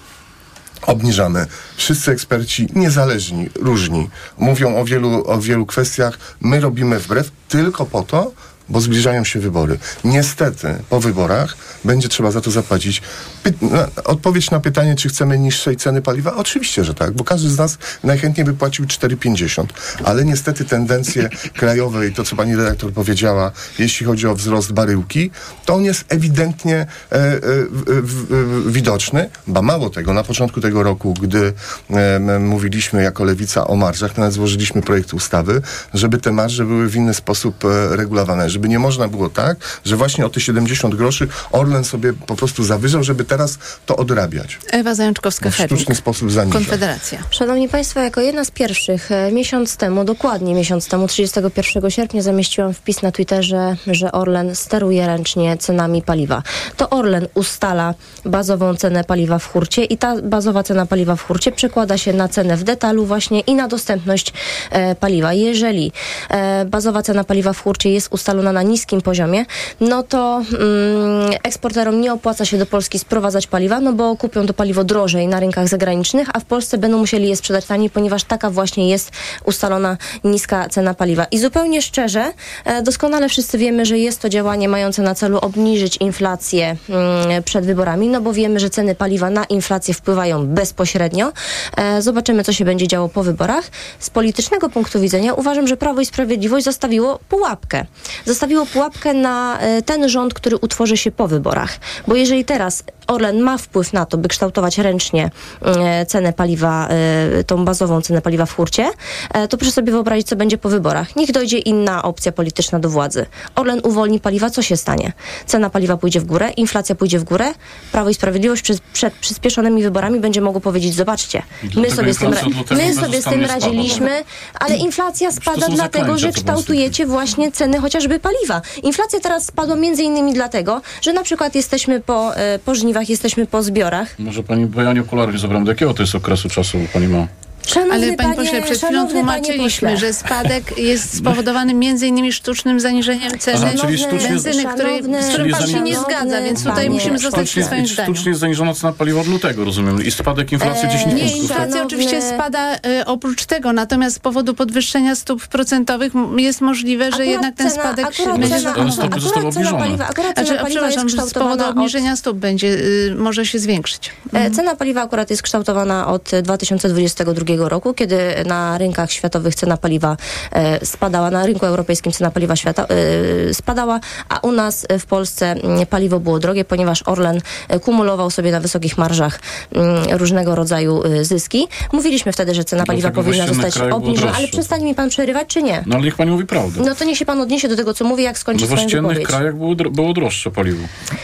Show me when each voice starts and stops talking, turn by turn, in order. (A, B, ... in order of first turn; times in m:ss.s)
0:00.8-0:44.6 A
0:44.7-0:46.0 B
0:45.4-0:46.8 A
0:46.5-0:47.2 B
0:47.3-2:14.1 C
2:01.6-2:04.1 D
2:05.4-2:06.9 D
2:14.2-2:17.3 D
2:17.6-2:20.0 C
2:17.9-2:28.3 B
2:23.3-2:27.8 C
2:23.5-2:24.5 D
2:25.2-2:26.1 D
2:26.6-2:31.7 D
2:30.6-2:32.4 C
2:31.1-2:39.3 B
2:37.1-2:42.0 C
2:38.3-2:40.0 D
2:40.3-2:44.5 B
2:44.3-3:05.9 C
3:02.8-3:04.6 D
3:05.8-3:06.8 D
3:06.8-3:09.4 C
3:08.5-3:10.9 D